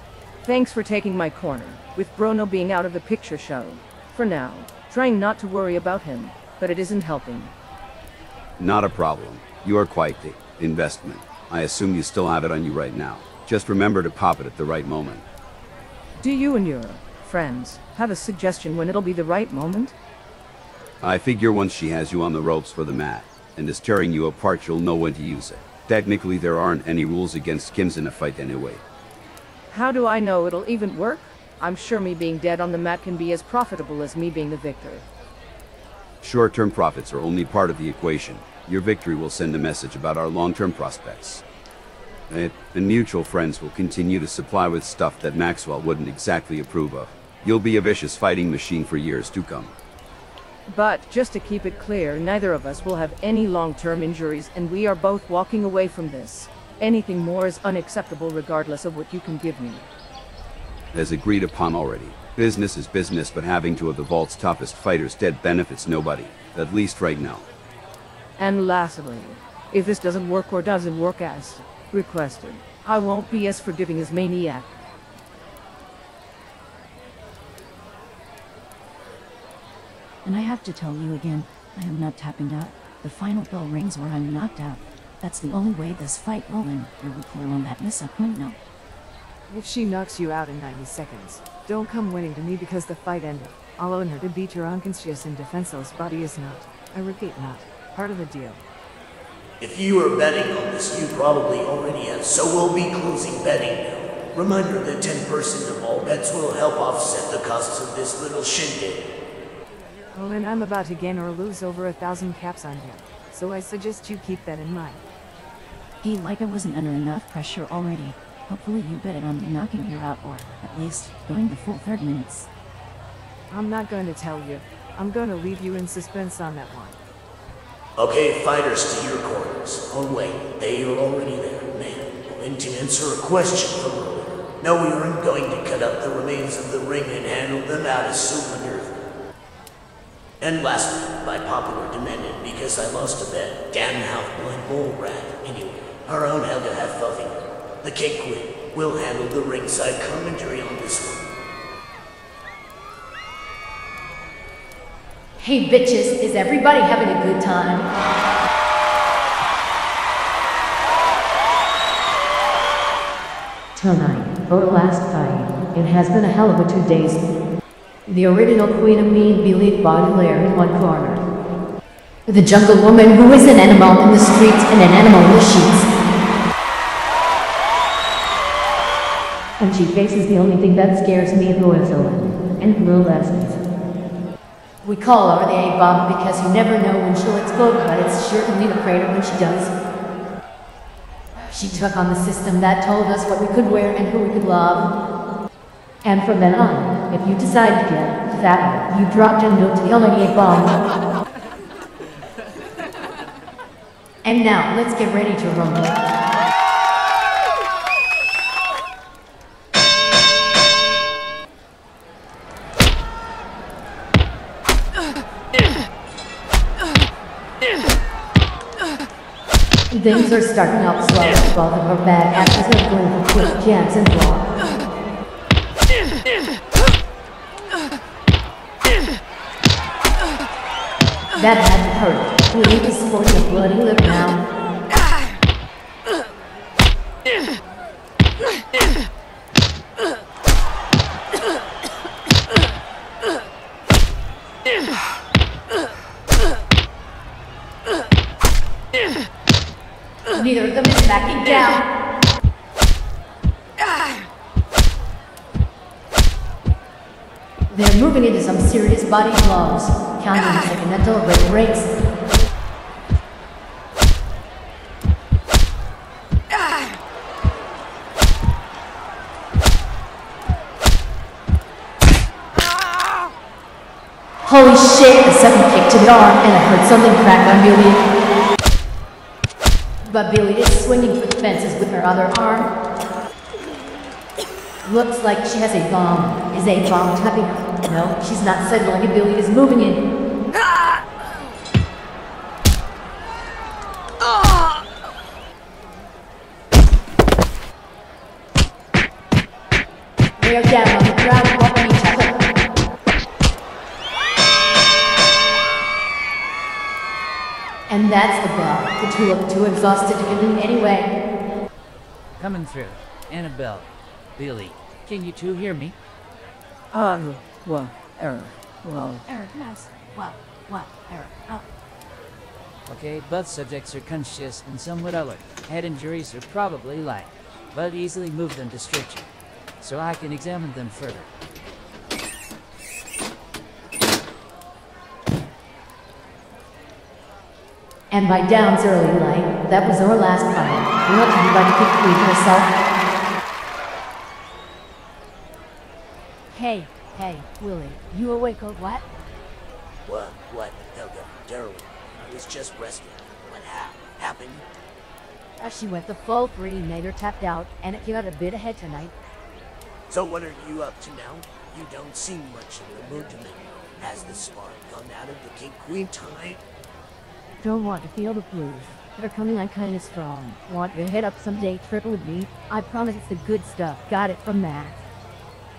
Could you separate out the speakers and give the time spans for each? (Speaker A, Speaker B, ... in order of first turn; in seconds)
Speaker A: 0.4-7.5, 16.2-19.9, 29.7-35.0, 50.7-59.9, 68.4-74.7, 316.9-319.2
Speaker B: 8.6-15.2, 21.0-28.8, 36.2-41.4, 42.3-49.7, 60.9-67.5
Speaker C: 80.2-88.6, 116.0-122.5, 319.2-321.6
Speaker D: 89.5-98.6, 110.1-115.0, 123.5-127.0
Speaker E: 99.6-109.0, 128.0-138.9, 140.4-151.3, 350.0-354.6, 360.1-366.6
Speaker F: 155.4-157.9, 163.7-167.2, 168.1-171.2, 172.3-175.9, 179.6-183.6, 184.8-189.7, 191.4-194.9, 196.0-200.8, 204.2-206.0, 219.9-224.5, 231.3-234.4, 250.3-251.8, 257.7-261.9, 274.4-278.0, 280.0-282.7, 284.8-290.0, 300.4-302.4, 307.9-311.1, 338.1-342.7, 346.5-349.0, 355.6-359.1, 367.6-375.0
Speaker G: 312.4-315.9, 322.9-329.3, 329.8-331.3